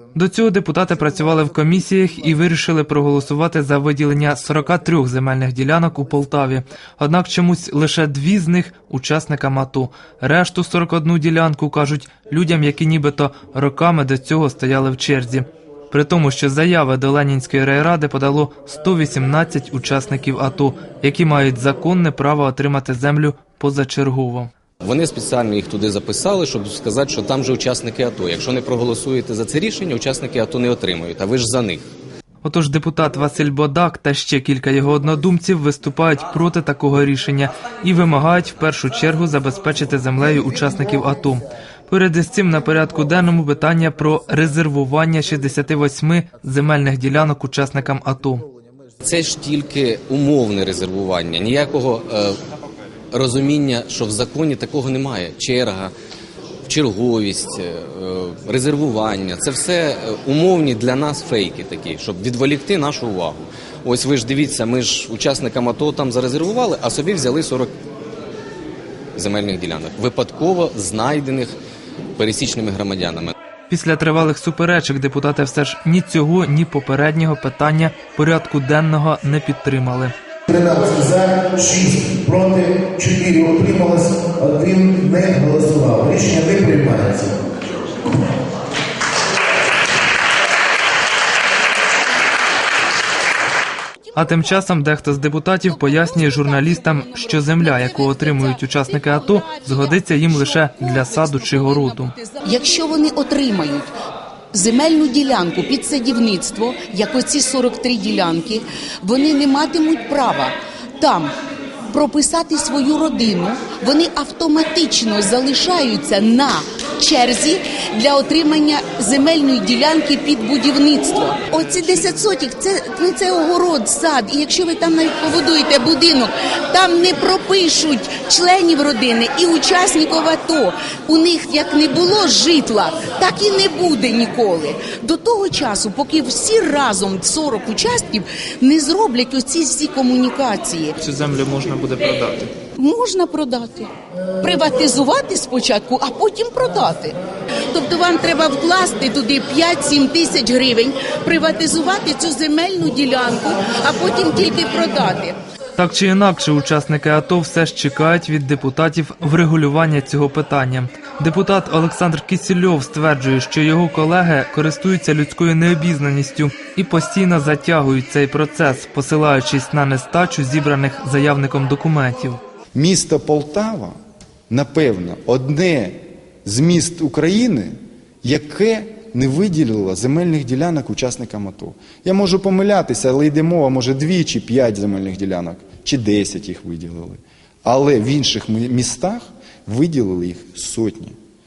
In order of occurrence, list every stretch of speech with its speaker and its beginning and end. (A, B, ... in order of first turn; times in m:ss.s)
0:00.2-0:24.5 A
0:24.8-0:31.9 B
0:32.4-0:48.5 A
0:49.0-0:52.4 B
0:53.1-0:55.9 B
0:56.7-1:07.7 B
1:09.2-1:11.6 B
1:12.2-1:13.3 B
1:13.7-1:20.1 A
1:20.5-1:27.4 C
1:34.0-1:34.6 D
1:34.2-1:42.1 A
1:35.7-1:43.9 D
1:44.5-1:51.3 D
1:51.9-2:21.0 D
2:21.0-2:22.5 A
2:22.8-2:27.2 D
2:27.7-2:35.4 D
2:35.8-2:52.4 A
2:52.8-2:54.0 E
2:54.5-3:11.2 E